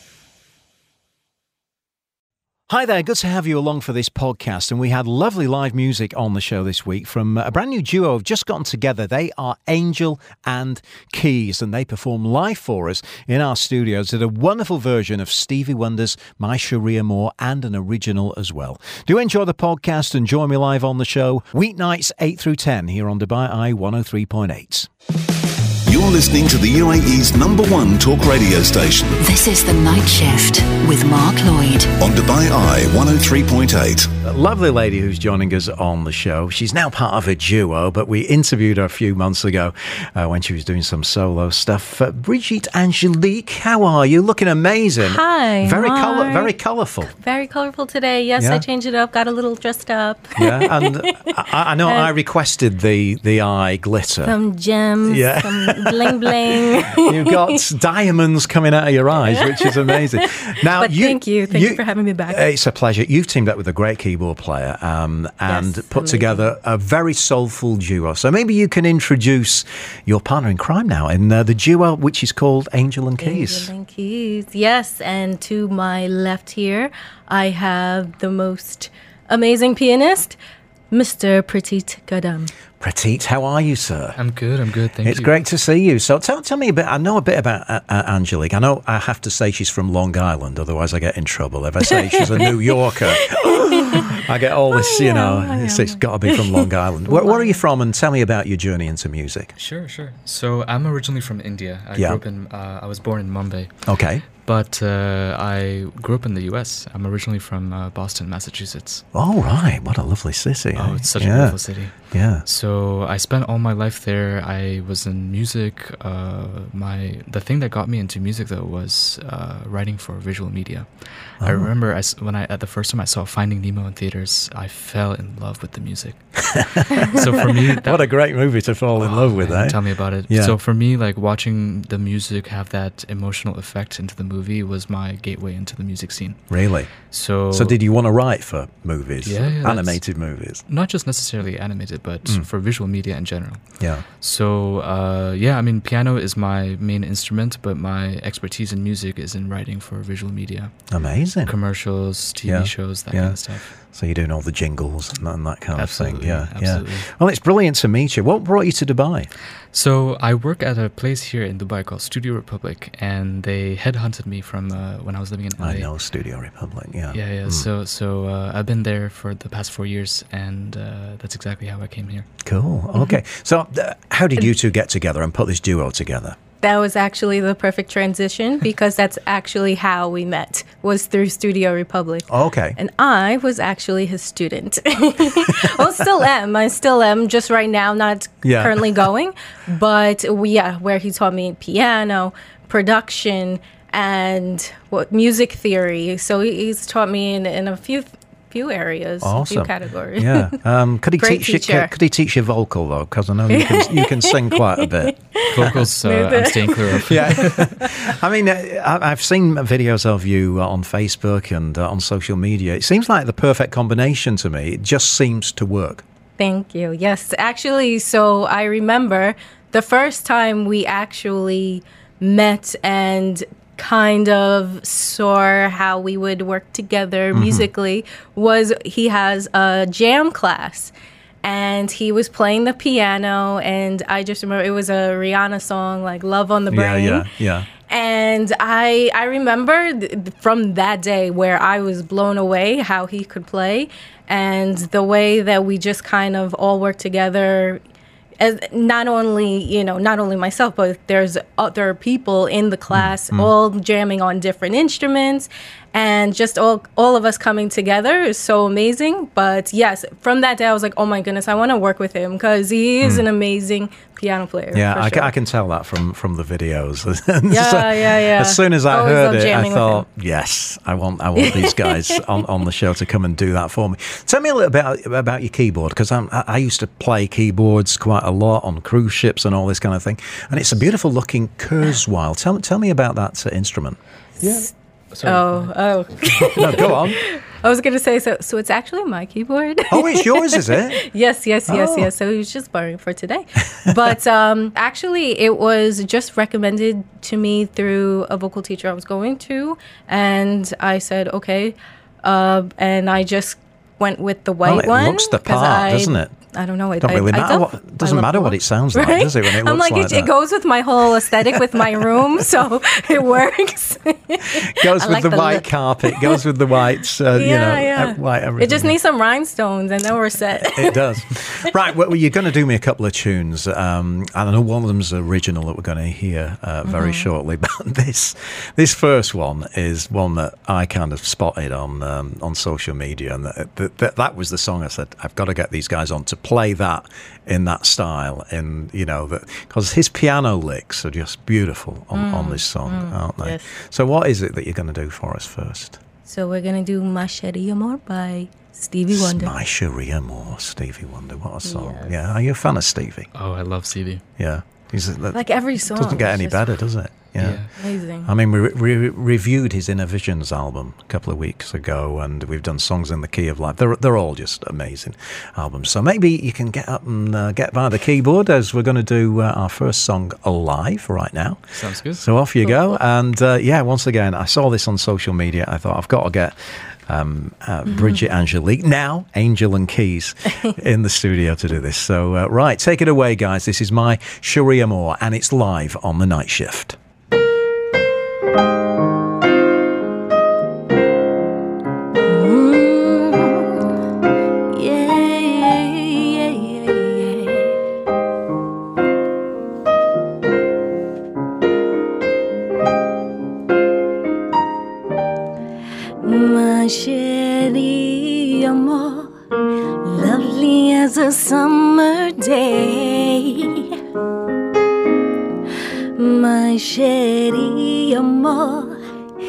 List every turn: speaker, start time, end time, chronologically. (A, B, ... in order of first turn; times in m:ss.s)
0:02.7-0:24.9 A
0:25.8-0:29.2 B
0:29.2-0:31.9 C
0:32.0-0:34.1 B
0:34.2-0:47.1 A
0:45.0-0:46.5 D
0:47.2-0:51.1 D
0:48.4-0:48.6 A
0:50.4-0:54.4 A
0:51.8-0:52.1 D
0:54.2-0:57.3 D
0:55.0-1:13.7 A
0:59.2-1:02.4 D
1:05.5-1:06.5 D
1:13.2-1:20.4 D
1:20.9-1:22.5 D
1:22.8-1:24.2 A
1:24.2-1:25.4 E
1:25.0-1:39.5 A
1:31.9-1:32.5 D
1:33.2-1:34.2 D
1:34.7-1:37.6 D
1:39.6-1:49.0 E
1:41.9-1:42.2 A
1:43.8-1:44.2 A
1:49.1-1:52.4 A
1:50.7-2:17.8 E
2:01.4-2:01.7 A
2:07.8-2:10.6 A
2:16.5-2:20.6 A
2:19.2-2:30.7 E
2:30.9-2:31.6 A
2:31.4-2:33.7 E
2:32.4-2:39.3 A
2:35.7-2:37.1 E
2:39.7-2:45.9 E
2:45.6-2:47.7 A
2:47.1-2:52.3 E
2:52.4-2:56.4 A
2:56.6-3:02.2 D
3:02.3-3:02.8 A
3:02.8-3:20.6 D
3:08.4-3:09.1 A
3:19.2-3:25.8 A
3:21.2-3:21.9 D
3:23.5-3:27.7 D
3:25.4-3:27.8 E
3:26.9-3:36.0 A
3:36.4-3:57.3 D
3:47.3-3:47.7 A
3:56.7-3:57.7 A
3:57.8-4:07.8 D
4:08.4-4:25.3 D
4:12.9-4:13.5 A
4:24.7-4:44.0 A
4:27.5-4:30.0 D
4:31.4-4:32.2 D
4:44.4-4:45.7 E
4:45.2-5:16.4 D
4:46.4-4:46.7 E
4:46.5-4:47.2 A
4:49.9-4:51.0 A
4:51.7-4:52.1 A
5:04.6-5:06.4 A
5:07.0-5:10.3 A
5:14.7-5:19.0 A
5:17.3-5:21.0 D
5:20.7-5:46.0 A
5:26.8-5:27.3 D
5:42.1-5:43.7 D
5:46.2-5:49.5 D
5:49.1-5:53.3 A
5:51.6-5:52.1 D
5:53.3-5:54.2 E
5:54.4-6:27.0 A
5:55.3-5:56.8 D
5:57.4-5:57.7 E
5:57.8-5:58.3 D
6:11.7-6:12.2 E
6:12.6-6:12.9 D
6:32.2-6:34.0 D
6:34.7-6:37.8 D
6:46.2-6:49.3 D
6:50.0-6:54.0 D
6:56.2-6:59.0 D